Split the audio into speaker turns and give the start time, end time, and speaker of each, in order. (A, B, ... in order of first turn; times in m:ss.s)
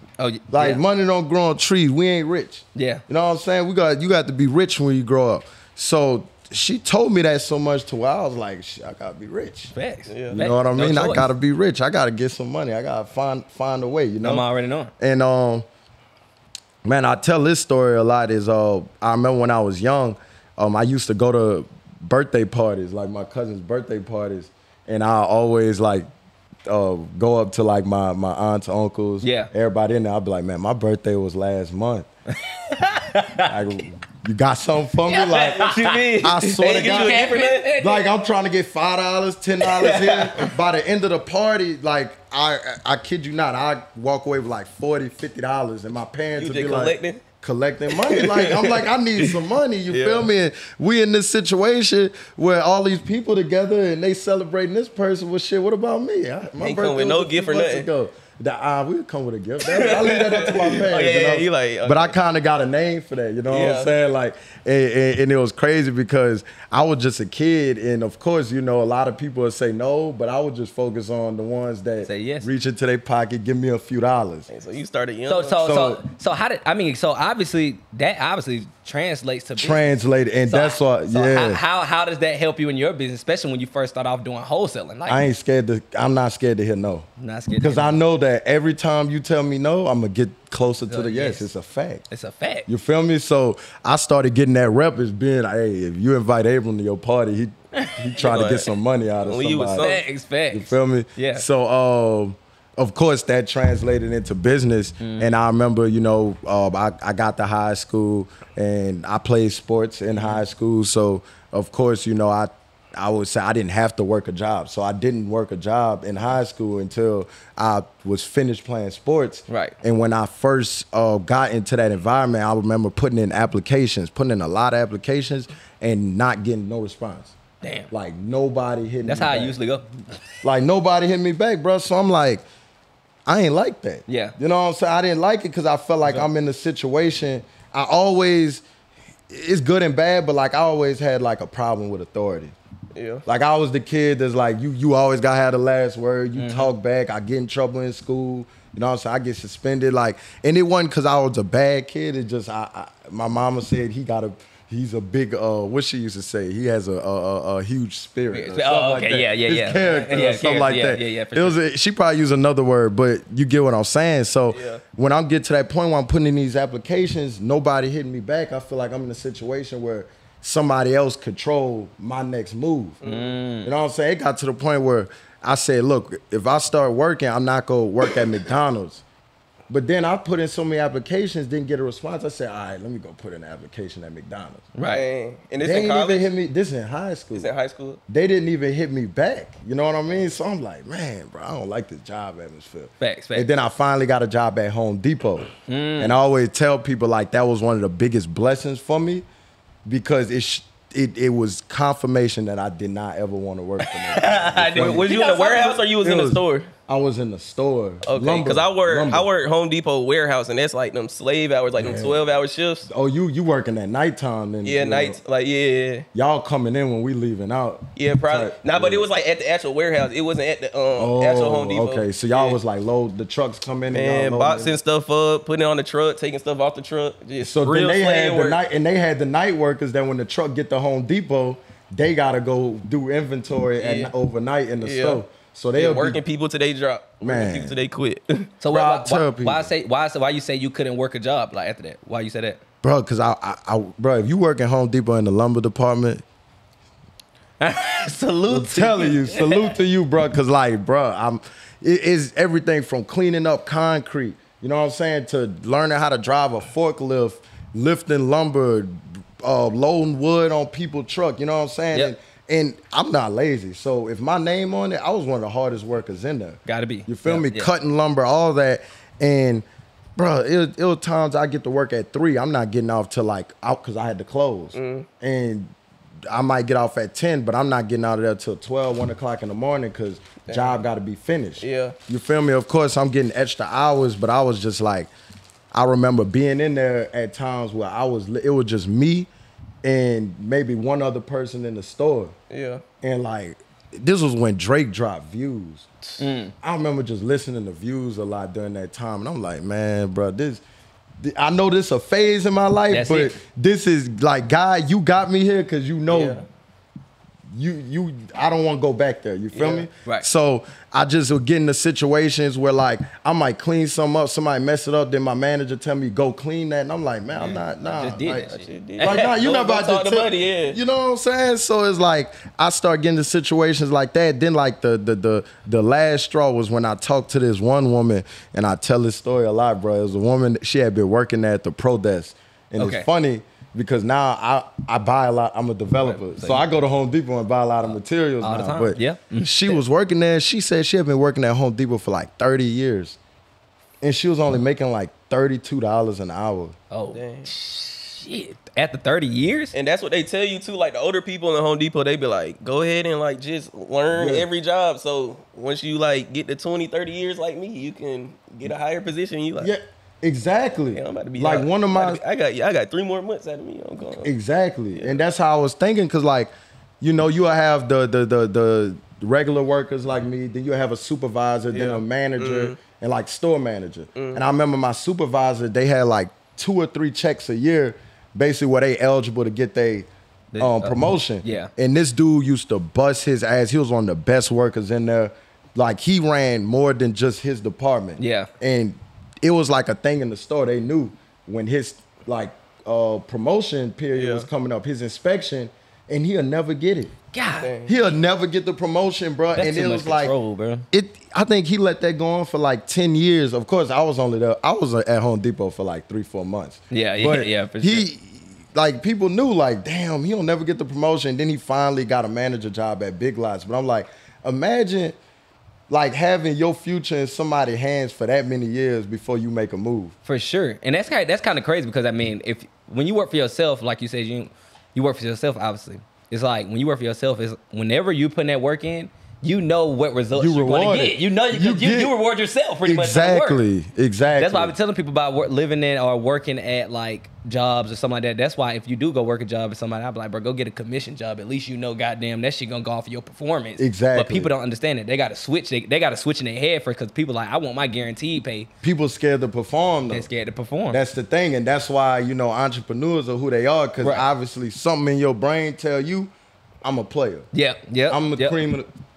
0:00.2-0:00.8 A
0:00.5-0:09.7 B
0:02.7-0:03.0 A
0:09.7-0:11.3 A
0:10.1-0:10.4 C
0:10.3-0:14.4 B
0:14.2-0:14.9 A
0:15.0-0:15.6 B
0:16.8-0:26.1 B
0:26.7-0:32.1 B
0:29.2-0:29.5 A
0:32.3-0:33.6 A
0:33.4-0:37.2 B
0:35.1-0:38.0 A
0:35.6-0:37.7 C
0:37.8-1:14.5 B
0:46.4-0:47.2 C
0:47.9-0:50.3 C
0:56.6-0:57.9 C
0:59.6-1:02.1 C
1:03.5-1:03.9 C
1:12.0-1:12.5 A
1:14.5-1:15.6 C
1:15.3-1:19.8 A
1:15.6-1:16.0 B
1:19.6-1:21.6 B
1:20.5-1:25.3 A
1:25.1-1:27.1 B
1:27.2-1:27.9 A
1:27.6-1:32.0 B
1:30.9-1:31.5 A
1:32.1-1:32.7 A
1:32.7-1:40.0 B
1:37.7-1:38.0 A
1:38.2-1:40.0 C
1:39.8-1:41.4 A
1:40.5-2:07.3 B
1:45.0-1:45.3 A
1:59.5-1:59.8 A
2:07.6-2:07.9 A
2:07.9-2:09.6 B
2:09.0-2:10.2 A
2:10.4-2:12.4 B
2:13.2-2:18.6 B
2:14.1-2:14.4 A
2:19.3-2:22.5 B
2:22.9-2:23.2 C
2:23.2-2:53.0 B
2:26.4-2:26.7 A
2:38.3-2:41.6 A
2:44.5-2:44.8 C
2:53.0-2:53.4 C
2:53.0-2:53.7 A
2:53.6-2:59.0 B
2:59.7-3:04.7 B
3:04.8-3:05.0 A
3:04.9-3:06.2 C
3:05.6-3:07.5 B
3:07.3-3:08.0 C
3:08.1-3:19.2 B
3:13.0-3:13.5 A
3:15.7-3:16.2 A
3:19.8-3:25.1 B
3:23.8-3:25.8 A
3:24.8-3:26.7 C
3:26.0-3:29.3 B
3:28.0-3:32.9 C
3:31.8-3:35.2 B
3:34.6-3:36.0 C
3:36.1-3:39.1 B
3:38.0-3:42.6 C
3:41.0-3:44.7 B
3:43.9-3:48.6 C
3:47.4-3:56.2 B
3:53.8-3:54.1 C
3:54.8-3:55.2 C
3:55.7-3:58.5 C
3:57.2-3:57.8 B
3:58.6-4:02.6 A
3:58.7-3:59.7 B
4:02.8-4:06.2 B
4:07.6-4:09.7 A
4:08.5-4:29.6 B
4:26.6-4:27.7 A
4:30.2-4:35.7 B
4:34.7-4:35.1 C
4:36.3-4:45.1 B
4:40.4-4:40.8 C
4:41.6-4:42.0 C
4:45.7-4:49.3 B
4:49.8-4:52.3 B
4:52.5-4:52.8 C
4:53.0-4:55.9 B
4:56.2-4:56.5 A
4:56.6-5:00.6 B
5:01.2-5:06.4 B
5:02.9-5:03.4 A
5:06.1-5:06.4 C
5:07.5-5:18.5 B
5:09.5-5:09.9 C
5:17.8-5:19.2 A
5:18.3-5:20.8 C
5:19.0-5:43.2 B
5:32.8-5:33.1 A
5:36.0-5:36.6 A
5:38.4-5:39.8 A
5:44.0-5:46.8 B
5:46.9-5:49.7 A
5:47.1-5:47.5 C
5:49.7-5:59.7 C
5:54.1-5:54.5 B
5:59.6-6:02.2 B
6:00.9-6:04.3 C
6:04.2-6:20.1 B
6:11.7-6:12.8 C
6:14.1-6:14.4 C
6:20.5-6:21.7 A
6:20.6-6:37.1 B
6:28.2-6:28.5 A
6:34.1-6:34.5 C
6:37.3-6:37.7 A
6:37.6-6:38.0 C
6:37.8-6:40.3 B
6:39.6-6:40.8 A
6:40.9-6:55.2 B
6:46.9-6:48.0 A
6:55.9-7:00.1 B
7:00.2-7:13.6 A
7:10.3-7:12.1 B
7:12.8-7:14.7 B
7:14.4-7:28.7 A
7:23.8-7:24.5 B
7:28.8-7:30.3 B
7:30.1-7:31.0 A
7:30.9-7:36.3 B
7:36.8-7:37.5 B
7:37.5-7:38.6 A
7:38.1-7:38.9 B